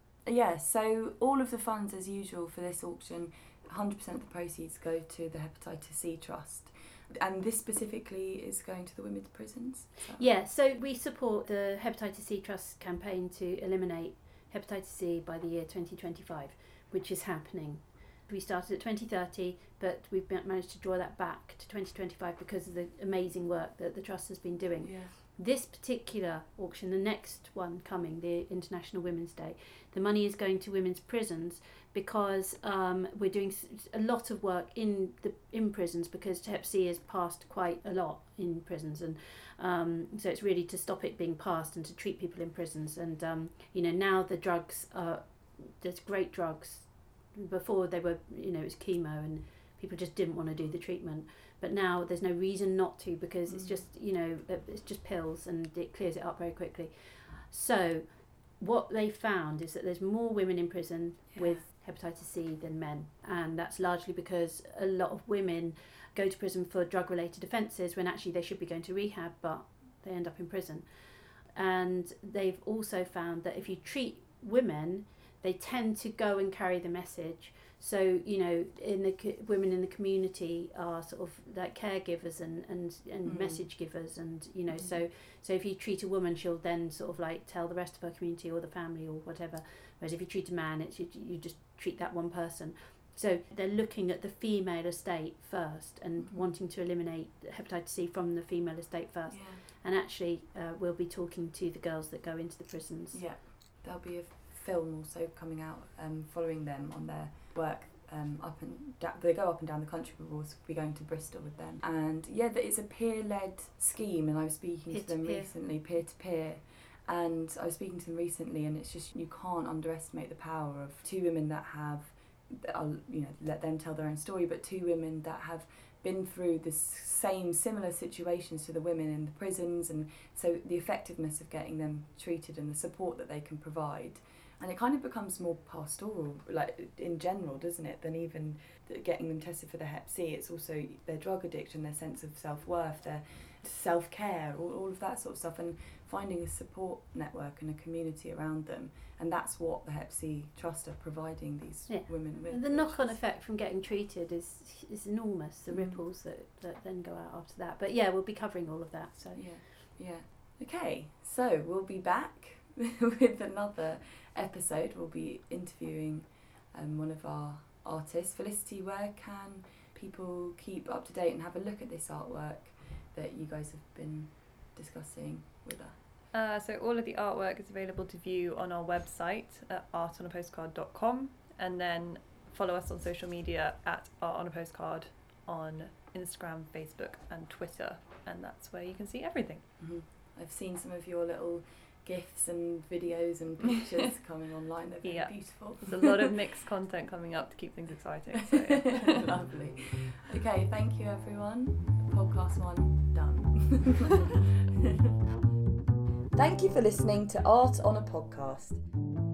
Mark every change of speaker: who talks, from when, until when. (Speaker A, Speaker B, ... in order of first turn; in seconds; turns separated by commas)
Speaker A: 0.2-10.4, Speaker B: 10.2-103.2, Speaker A: 24.8-25.1, Speaker A: 53.5-53.9, Speaker A: 61.3-61.6, Speaker A: 83.2-83.9, Speaker A: 84.7-85.0, Speaker A: 96.2-96.5, Speaker A: 99.3-99.6, Speaker A: 103.1-153.2, Speaker B: 114.9-115.5, Speaker B: 151.9-159.7, Speaker A: 155.7-156.0, Speaker A: 159.3-176.0, Speaker C: 176.3-189.7, Speaker A: 189.8-196.2, Speaker C: 195.0-199.2, Speaker A: 198.9-205.1, Speaker A: 206.3-208.8